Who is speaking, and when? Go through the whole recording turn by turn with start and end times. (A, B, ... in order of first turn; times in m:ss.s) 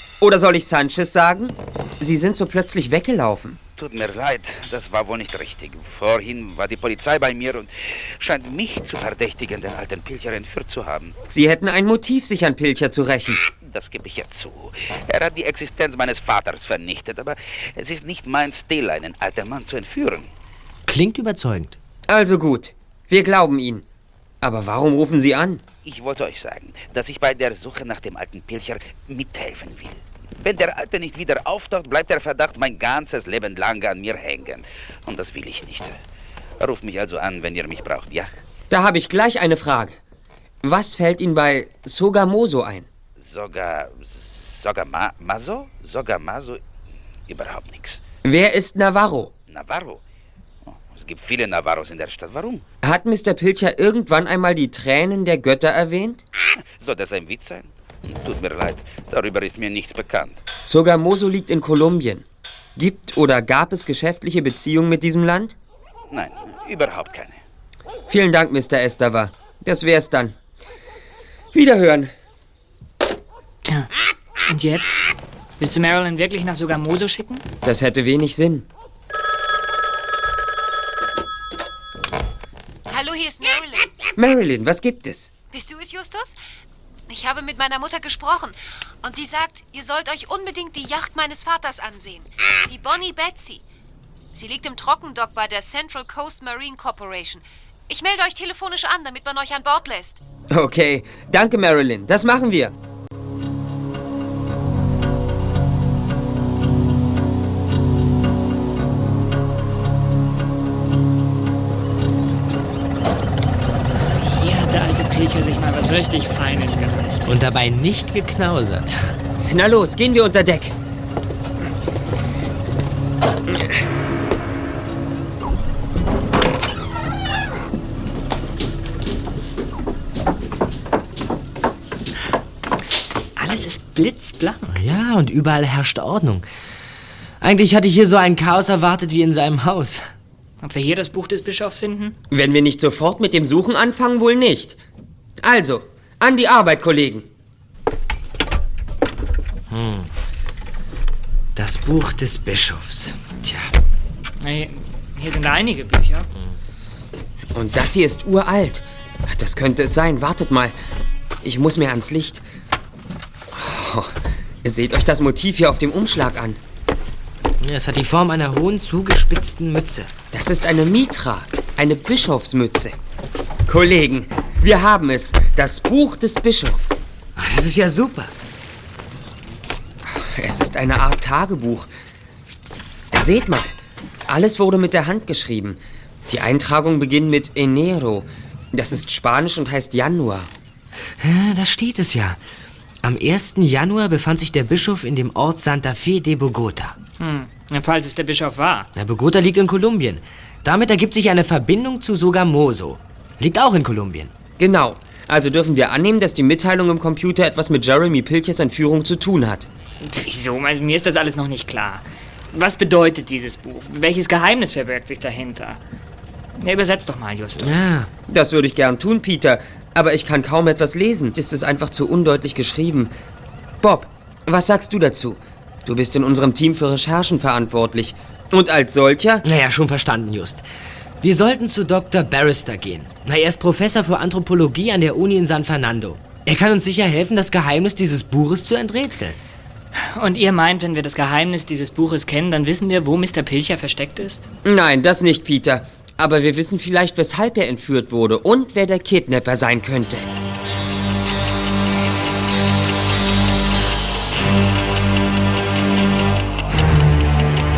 0:00.2-0:03.6 A
0:03.8-0:11.1 B
0:11.3-0:13.4 A
0:13.5-0:20.3 B
0:20.9-0:21.8 C
0:22.1-0:23.8 A
0:24.4-0:25.6 A
0:25.8-0:35.9 B
0:36.6-0:38.3 B
0:38.7-0:40.0 A
0:40.6-0:42.9 A
0:43.2-0:46.6 B
0:47.3-0:48.0 B
0:48.2-0:49.3 A
0:49.5-0:50.0 B
0:50.6-0:52.6 B
0:52.8-0:56.2 A
0:56.8-1:00.4 B
1:00.6-1:02.2 A
1:02.8-1:05.5 A
1:06.1-1:07.4 B
1:08.1-1:10.3 A
1:11.5-1:12.1 A
1:14.5-1:15.1 D
1:15.6-1:17.4 D
1:17.6-1:18.7 A
1:22.9-1:23.9 E
1:24.2-1:25.3 A
1:25.5-1:26.3 E
1:27.1-1:33.6 E
1:34.3-1:40.2 E
1:40.5-1:42.7 A
1:54.0-1:57.4 D
1:57.2-1:59.1 C
1:59.5-2:00.8 A
2:03.5-2:03.8 A
2:13.4-2:14.8 D
2:14.7-2:16.4 C
2:17.4-2:20.1 C
2:20.6-2:22.2 D
2:22.3-2:24.8 A
2:25.4-2:27.3 A
2:29.7-2:30.1 C
2:31.5-2:33.7 C
2:34.4-2:36.3 D
2:37.5-2:40.7 A
2:41.4-2:42.4 A
2:43.5-2:46.6 A
2:47.6-2:50.1 C
2:50.3-2:53.0 A
2:53.7-2:57.0 A
2:57.4-2:58.3 C
3:00.0-3:01.9 A
3:03.1-3:03.7 A
3:04.3-3:10.5 A
3:11.2-3:12.4 C
3:13.0-3:17.0 C
3:17.2-3:18.9 D
3:18.9-3:24.3 C
3:24.6-3:29.7 A
3:30.0-3:35.8 D
3:36.6-3:37.9 D
3:37.6-3:38.1 C
3:38.3-3:43.1 A
3:43.8-3:49.4 A
3:49.4-3:50.6 C
3:51.2-3:59.4 C
3:59.9-4:04.5 D
4:04.6-4:10.3 A